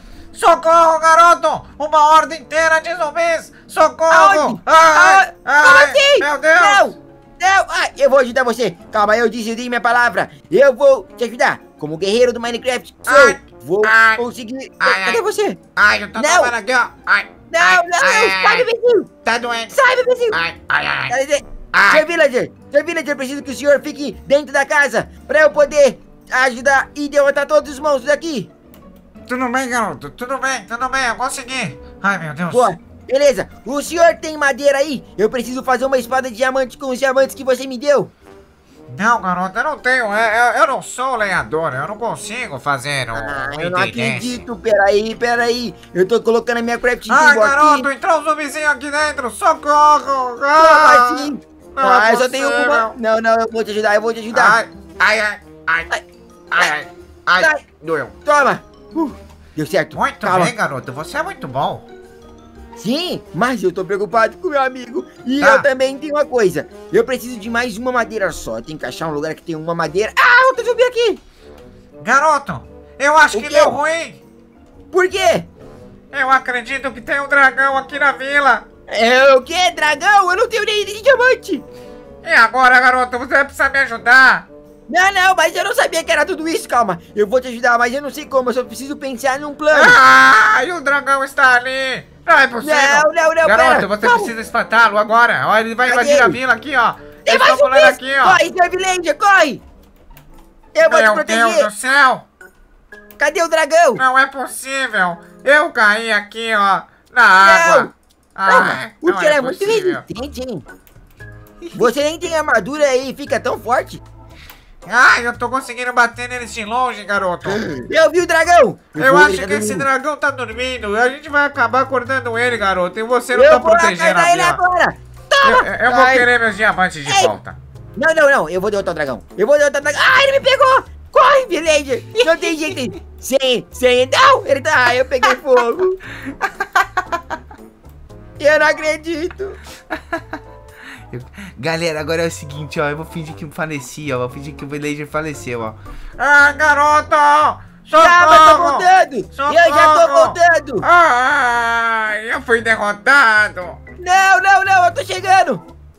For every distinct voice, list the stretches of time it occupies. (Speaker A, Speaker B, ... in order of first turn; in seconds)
Speaker A: 0.3-6.9, 13.1-14.2, 14.8-15.2, 15.8-18.7, 19.2-19.8, 20.3-21.1, 21.7-22.1, 29.3-32.7, 38.9-44.4, 47.1-52.9, 54.3-55.9, 56.5-58.1, 59.9-61.9, 65.4-65.7, 72.0-74.2, 76.1-78.6, 82.2-84.5, 89.7-98.4, 100.8-102.2, 104.0-110.0, 114.8-117.7, 119.0-124.6, 125.4-127.6, 146.2-153.8
Speaker B: 4.1-15.6, 16.1-16.5, 17.5-19.1, 19.7-20.4, 21.1-28.5, 32.5-38.1, 43.1-47.9, 50.6-54.6, 57.4-57.6, 58.2-60.5, 62.8-71.2, 73.3-73.8, 74.9-75.5, 78.9-81.6, 84.9-90.0, 92.6-94.3, 95.8-96.4, 97.2-99.6, 100.7-101.7, 103.2-104.0, 107.4-107.9, 108.5-110.6, 111.7-114.0, 117.8-119.9, 123.3-126.3, 127.0-127.4, 128.0-136.0, 138.4-139.6, 147.9-150.8, 154.0-155.6
Speaker C: 111.6-111.9, 132.2-132.8, 136.3-137.2, 139.9-140.4, 141.1-145.8